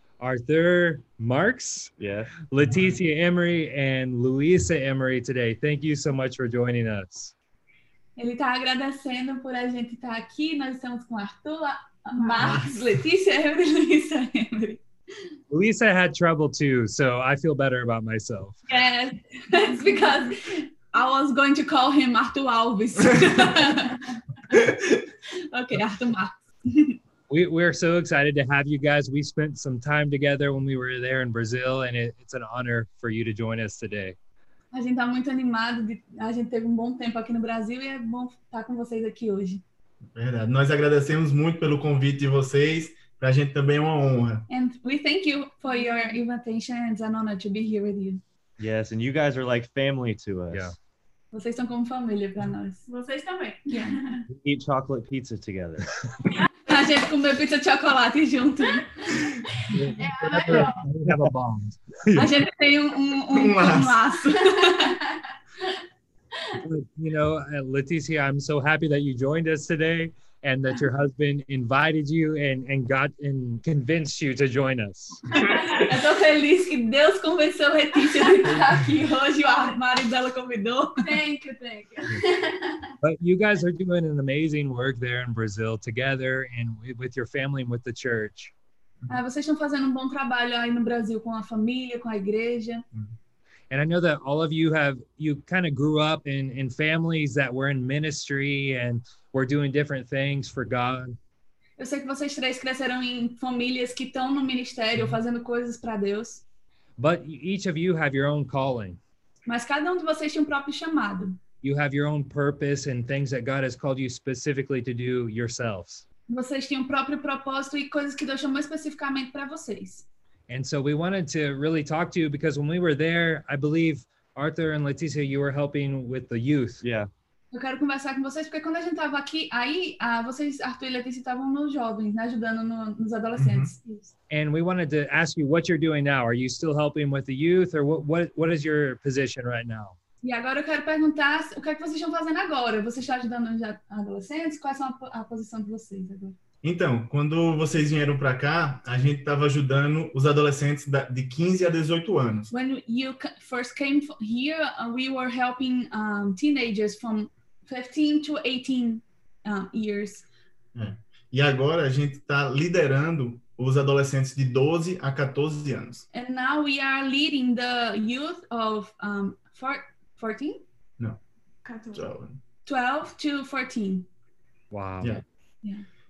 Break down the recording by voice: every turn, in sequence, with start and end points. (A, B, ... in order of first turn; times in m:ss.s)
0:00.2-0:02.0 A
0:02.0-0:02.4 B
0:02.5-0:07.3 A
0:08.2-0:14.8 C
0:12.2-0:12.7 D
0:15.5-0:18.6 A
0:18.7-0:24.1 C
0:24.5-0:25.0 E
0:25.4-0:27.0 C
0:27.3-0:34.2 A
0:34.7-0:39.6 C
0:40.2-0:44.5 E
0:44.5-0:48.2 C
0:48.6-0:50.7 B
0:51.3-0:52.8 C
0:52.9-0:54.2 D
0:53.7-0:54.0 C
0:54.3-0:56.0 B
0:56.7-0:59.2 C
0:59.7-1:02.4 A
1:00.0-1:00.8 D
1:02.2-1:05.0 C
1:03.3-1:04.4 E
1:06.6-1:15.6 A
1:15.4-1:21.1 C
1:21.0-1:22.9 D
1:23.0-1:28.5 A
1:29.1-1:32.8 C
1:33.7-1:41.2 A
1:41.8-1:46.4 C
1:47.0-1:49.0 A
1:49.5-1:51.4 C
1:51.6-1:56.0 A
1:56.3-2:00.0 C
2:00.5-2:06.8 A
2:06.8-2:07.1 B
2:07.5-2:13.9 C
2:13.4-2:13.7 E
2:14.3-2:20.0 A
2:20.2-2:26.4 C
2:26.6-2:32.5 E
2:32.5-2:40.3 C
2:40.8-2:46.1 E
2:46.1-2:50.6 C
2:51.6-2:52.1 D
2:51.9-2:52.4 E
2:52.7-2:54.0 C
2:54.7-2:55.2 A